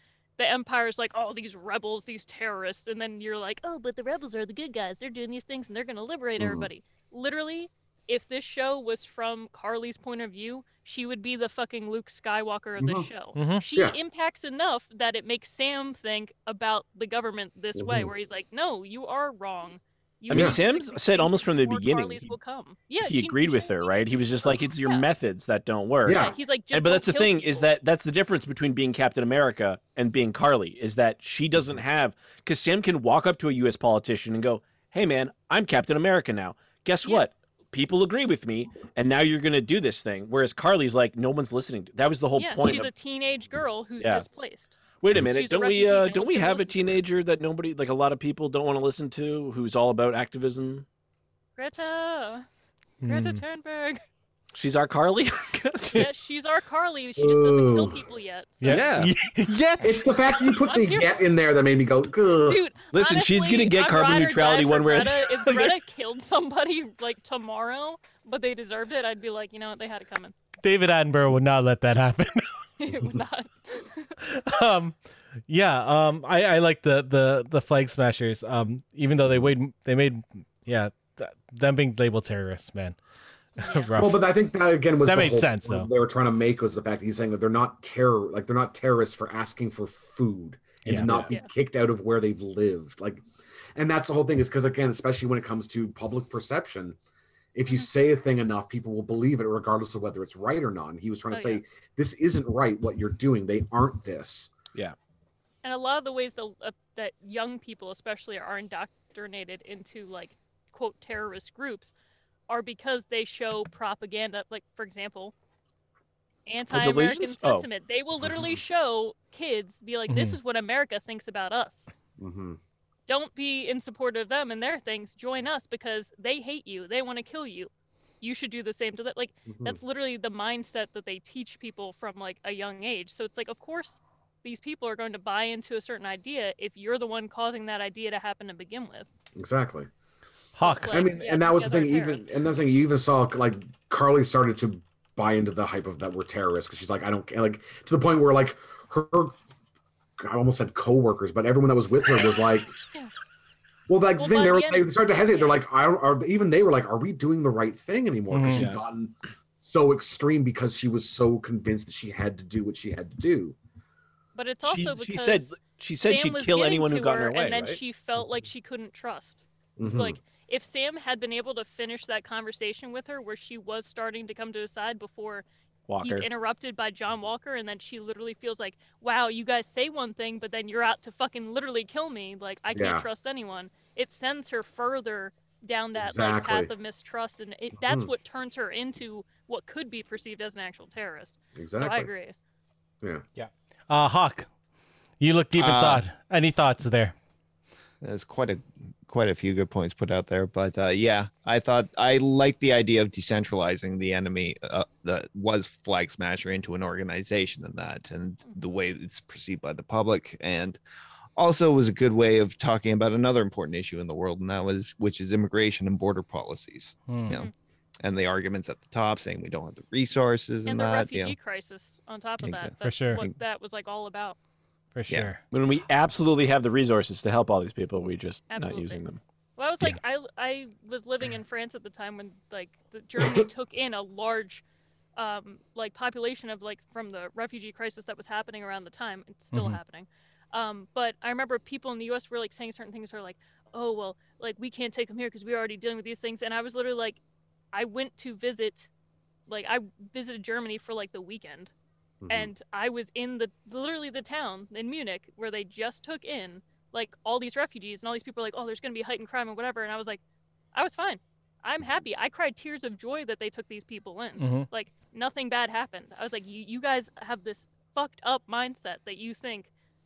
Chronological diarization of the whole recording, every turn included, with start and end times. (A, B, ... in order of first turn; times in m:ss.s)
0:00.4-0:25.1 A
0:06.4-0:06.7 B
0:12.8-0:13.1 B
0:13.4-0:13.6 C
0:17.8-0:18.1 B
0:20.3-0:22.4 D
0:20.3-0:20.6 B
0:23.0-0:42.9 D
0:26.1-0:26.4 B
0:26.1-0:27.7 A
0:42.4-0:47.0 A
0:44.0-0:44.2 D
0:45.0-0:50.8 D
0:51.6-0:52.4 A
0:53.0-0:53.4 C
0:53.0-0:54.0 A
0:54.5-0:56.1 D
0:55.9-0:58.9 A
0:57.2-0:58.0 B
0:58.6-1:00.1 C
0:58.7-0:59.1 D
0:59.8-1:02.6 B
1:00.5-1:01.2 A
1:02.4-1:10.3 A
1:02.9-1:05.8 D
1:10.6-1:12.5 C
1:12.8-1:14.2 A
1:14.2-1:15.0 C
1:15.5-1:23.0 C
1:23.6-1:24.2 C
1:23.6-1:24.0 A
1:24.0-1:33.2 B
1:25.0-1:25.9 C
1:30.8-1:31.1 C
1:30.9-1:31.3 D
1:33.8-1:37.0 B
1:37.6-1:44.5 B
1:41.3-1:41.6 A
1:45.6-1:51.9 A
1:52.5-1:55.3 A
1:56.5-2:01.9 A
1:56.7-1:57.7 D
2:00.1-2:00.4 C
2:02.2-2:02.6 B
2:03.1-2:19.1 A
2:09.5-2:09.8 B
2:19.4-2:19.9 B
2:20.6-2:21.1 C
2:20.6-2:22.4 A
2:20.9-2:29.4 B
2:30.2-2:32.8 B
2:33.9-2:43.6 B
2:34.2-2:35.6 A
2:38.3-2:38.7 C
2:38.5-2:38.8 D
2:44.4-2:55.4 A
2:44.6-2:47.8 D
2:49.8-2:50.2 B
2:55.9-2:56.3 D
2:56.0-3:12.3 A
3:02.7-3:03.1 B
3:06.0-3:06.7 B
3:07.8-3:08.1 B
3:11.6-3:12.1 B
3:13.9-3:14.5 C
3:15.2-3:17.1 C
3:15.6-3:16.1 E
3:18.0-3:30.8 E
3:31.4-3:37.5 E
3:37.1-3:37.4 C
3:38.0-3:41.4 E
3:40.7-3:44.4 A
3:42.4-3:43.4 E
3:42.8-3:43.2 C
3:44.9-3:45.4 C
3:45.5-3:49.2 D
3:48.5-3:49.0 A
3:49.6-3:54.6 A
3:55.2-4:07.2 A
3:59.5-3:59.8 C
4:07.7-4:08.9 A
4:09.5-4:11.7 A
4:12.2-4:12.5 B
4:12.3-4:20.2 A
4:20.7-4:29.7 A
4:24.4-4:24.7 C